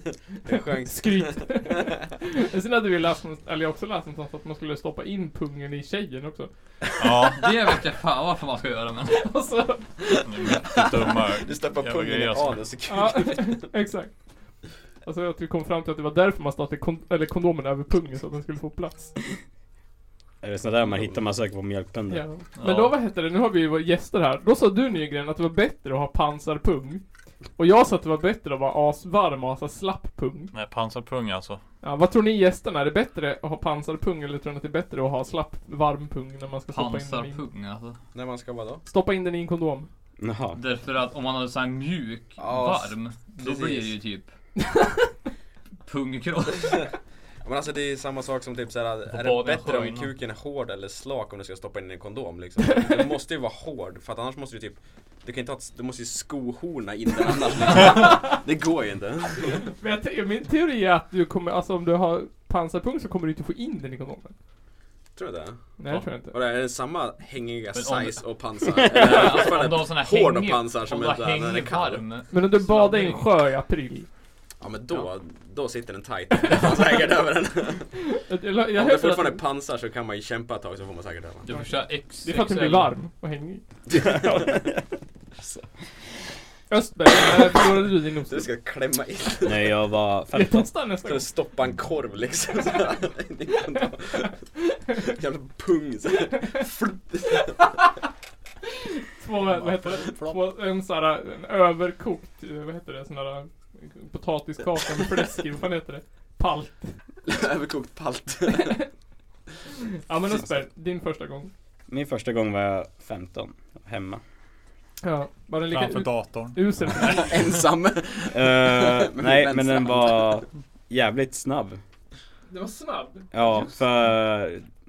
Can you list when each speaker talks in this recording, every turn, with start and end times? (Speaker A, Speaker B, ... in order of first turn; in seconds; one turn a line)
Speaker A: 0.4-1.9
Speaker B: 0.5-6.5
Speaker C: 7.0-7.4
Speaker D: 7.4-9.3
Speaker B: 9.1-9.9
Speaker A: 10.0-13.7
Speaker C: 10.2-12.6
Speaker B: 12.9-14.1
Speaker B: 15.0-19.1
Speaker E: 20.4-22.2
Speaker B: 22.1-27.0
Speaker C: 22.6-22.9
Speaker B: 27.6-30.5
Speaker C: 30.5-31.6
Speaker B: 31.8-37.4
Speaker D: 36.7-38.0
Speaker A: 38.1-38.8
Speaker B: 38.9-39.9
Speaker E: 40.2-40.6
Speaker D: 40.5-44.3
Speaker A: 42.4-43.9
Speaker B: 44.7-45.1
Speaker D: 45.8-46.9
Speaker A: 46.5-46.9
Speaker A: 47.4-59.6
Speaker D: 49.1-50.1
Speaker B: 59.6-64.3
Speaker A: 65.2-65.6
Speaker B: 65.8-66.3
Speaker A: 66.2-72.0
Speaker D: 67.7-73.2
Speaker B: 72.3-74.1
Speaker A: 74.6-77.9
Speaker B: 78.1-79.4
Speaker A: 78.7-81.5
Speaker D: 81.4-82.9
Speaker B: 81.5-83.6
Speaker A: 83.9-84.5
Speaker E: 84.1-84.6
Speaker B: 86.7-88.5
Speaker A: 88.3-89.7
Speaker E: 89.4-90.7
Speaker B: 90.3-91.3
Speaker A: 91.0-94.4
Speaker A: 94.9-97.7
Speaker B: 99.1-107.0
Speaker C: 99.5-100.4
Speaker A: 107.2-108.8
Speaker B: 110.1-111.5
Speaker E: 111.9-114.2
Speaker B: 115.0-117.4
Speaker C: 115.7-116.7
Speaker A: 117.0-120.4
Speaker E: 118.3-121.8
Speaker B: 122.5-123.4
Speaker E: 123.3-124.6